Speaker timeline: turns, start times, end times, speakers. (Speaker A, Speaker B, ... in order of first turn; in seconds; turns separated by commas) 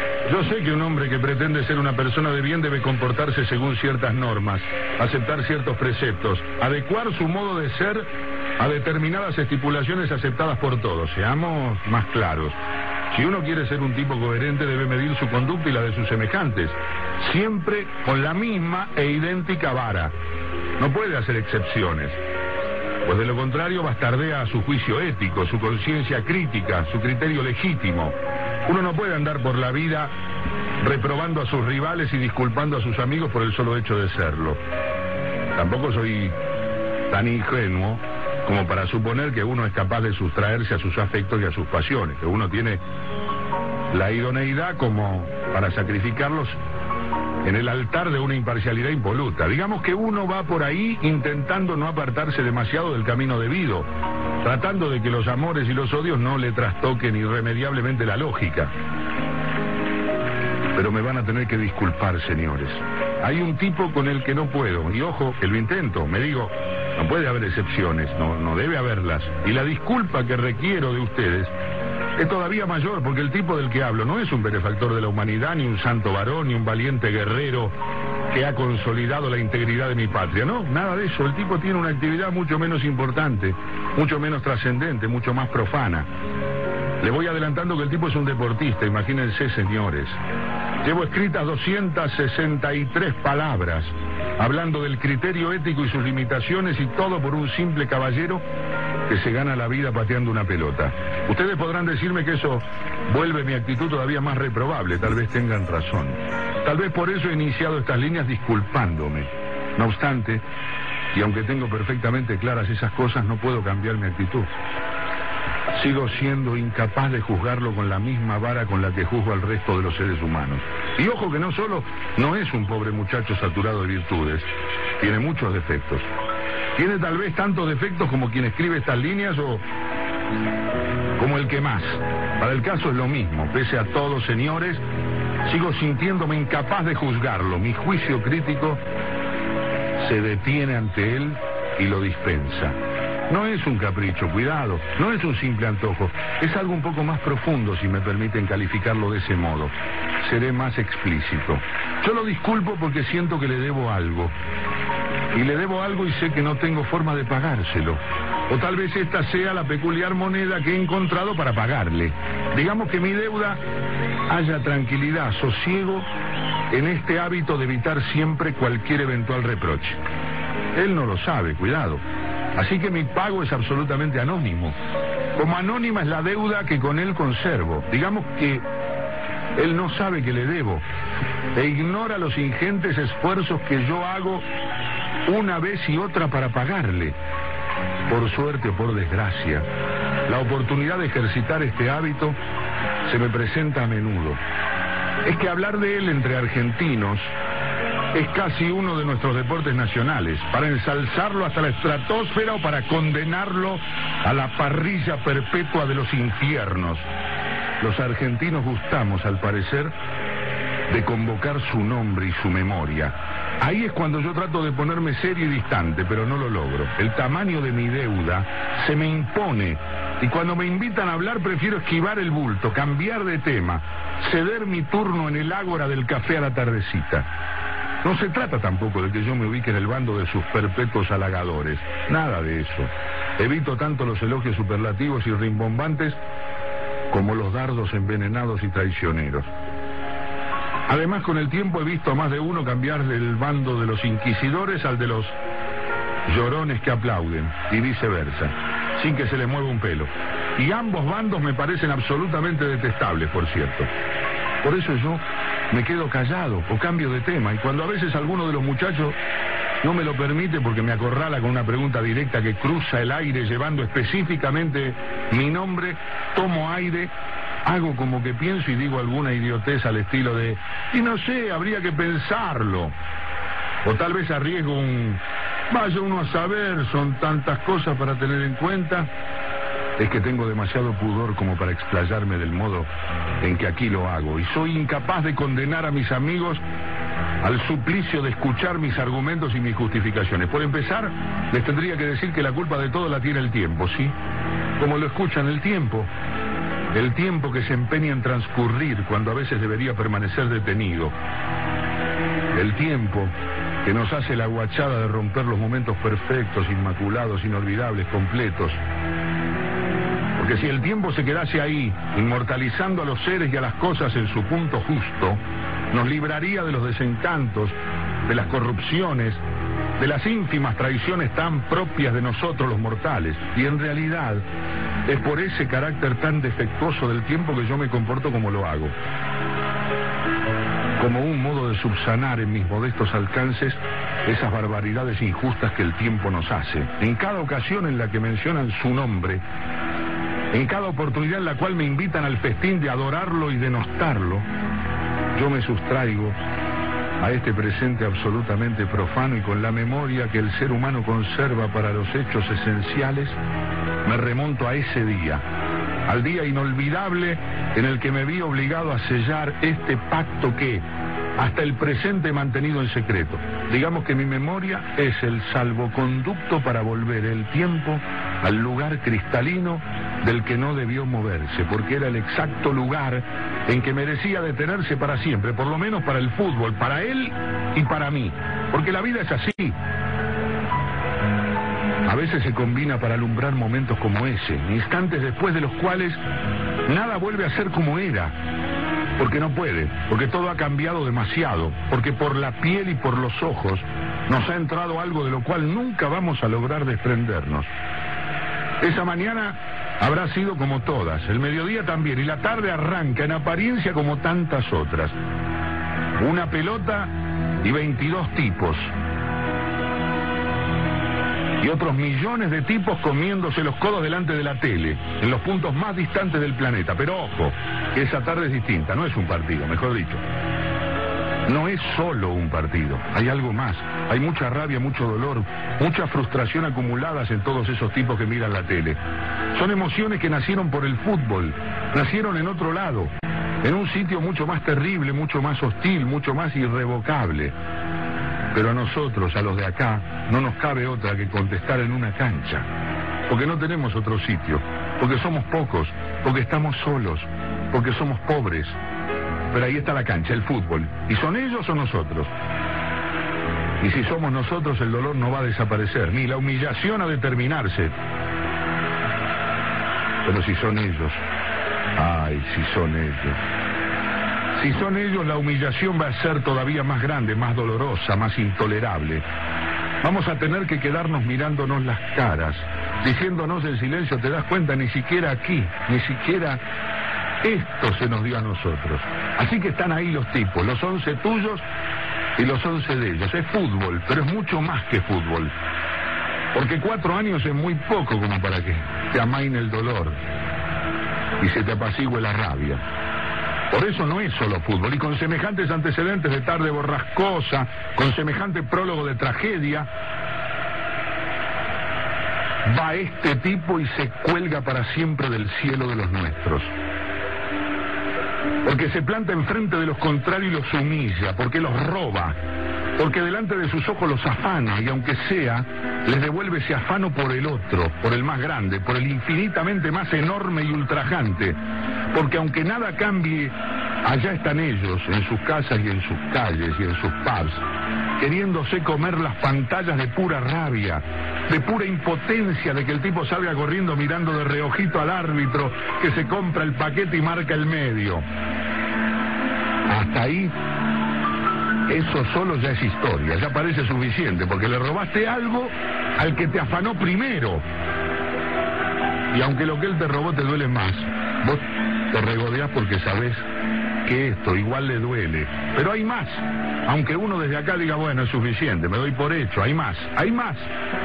Speaker A: 0.3-12.6, Speaker A: 13.1-20.1, Speaker A: 20.8-22.2, Speaker A: 23.1-30.1, Speaker A: 30.8-34.6, Speaker A: 35.5-36.4, Speaker A: 37.1-42.8, Speaker A: 43.9-46.6, Speaker A: 47.4-53.9, Speaker A: 54.4-58.7, Speaker A: 60.8-71.5, Speaker A: 72.2-77.8, Speaker A: 78.3-86.1, Speaker A: 87.0-90.2, Speaker A: 90.8-98.4, Speaker A: 99.1-110.4, Speaker A: 111.1-114.5, Speaker A: 115.8-124.5, Speaker A: 125.0-126.1, Speaker A: 126.8-129.6, Speaker A: 131.2-134.8, Speaker A: 135.5-138.8, Speaker A: 140.0-142.8, Speaker A: 143.3-149.7, Speaker A: 150.2-154.3, Speaker A: 155.3-163.6, Speaker A: 164.3-166.1, Speaker A: 166.7-170.0, Speaker A: 170.8-172.0, Speaker A: 172.6-174.8, Speaker A: 175.4-178.6, Speaker A: 179.6-180.8, Speaker A: 181.6-184.5, Speaker A: 185.3-187.2, Speaker A: 188.1-189.7, Speaker A: 190.3-192.4, Speaker A: 193.1-194.4, Speaker A: 195.2-197.3, Speaker A: 198.1-207.1, Speaker A: 207.8-209.9, Speaker A: 210.9-227.3, Speaker A: 228.0-236.2, Speaker A: 237.1-239.5, Speaker A: 240.9-245.3, Speaker A: 246.3-253.9, Speaker A: 254.6-259.2, Speaker A: 259.8-267.1, Speaker A: 267.7-272.9, Speaker A: 273.9-279.1, Speaker A: 280.0-282.9, Speaker A: 283.4-286.6, Speaker A: 287.4-294.1, Speaker A: 294.8-296.1, Speaker A: 296.9-301.1, Speaker A: 302.5-303.3, Speaker A: 303.9-308.8, Speaker A: 310.4-315.4, Speaker A: 315.9-317.8, Speaker A: 318.3-319.4, Speaker A: 320.0-324.4, Speaker A: 325.1-328.9, Speaker A: 331.0-339.4, Speaker A: 340.5-344.5, Speaker A: 345.4-346.4, Speaker A: 347.2-353.4, Speaker A: 354.1-355.4, Speaker A: 356.1-360.9, Speaker A: 361.4-379.8, Speaker A: 382.1-386.2, Speaker A: 386.9-388.4, Speaker A: 389.2-397.7, Speaker A: 398.8-405.1, Speaker A: 406.2-408.9, Speaker A: 411.6-420.2, Speaker A: 421.5-429.0, Speaker A: 429.5-433.1, Speaker A: 433.6-437.5, Speaker A: 438.5-442.7, Speaker A: 443.3-448.8, Speaker A: 449.5-452.3, Speaker A: 453.8-457.9, Speaker A: 460.2-461.2, Speaker A: 462.0-463.4, Speaker A: 464.6-469.2, Speaker A: 470.0-476.6, Speaker A: 477.4-481.6, Speaker A: 482.4-485.5, Speaker A: 486.5-490.2, Speaker A: 491.4-492.8, Speaker A: 493.7-499.9, Speaker A: 502.7-506.7, Speaker A: 508.6-512.4, Speaker A: 513.0-521.6, Speaker A: 522.1-527.6, Speaker A: 528.2-538.2, Speaker A: 539.9-540.5, Speaker A: 541.9-547.6, Speaker A: 549.3-553.4, Speaker A: 554.0-560.7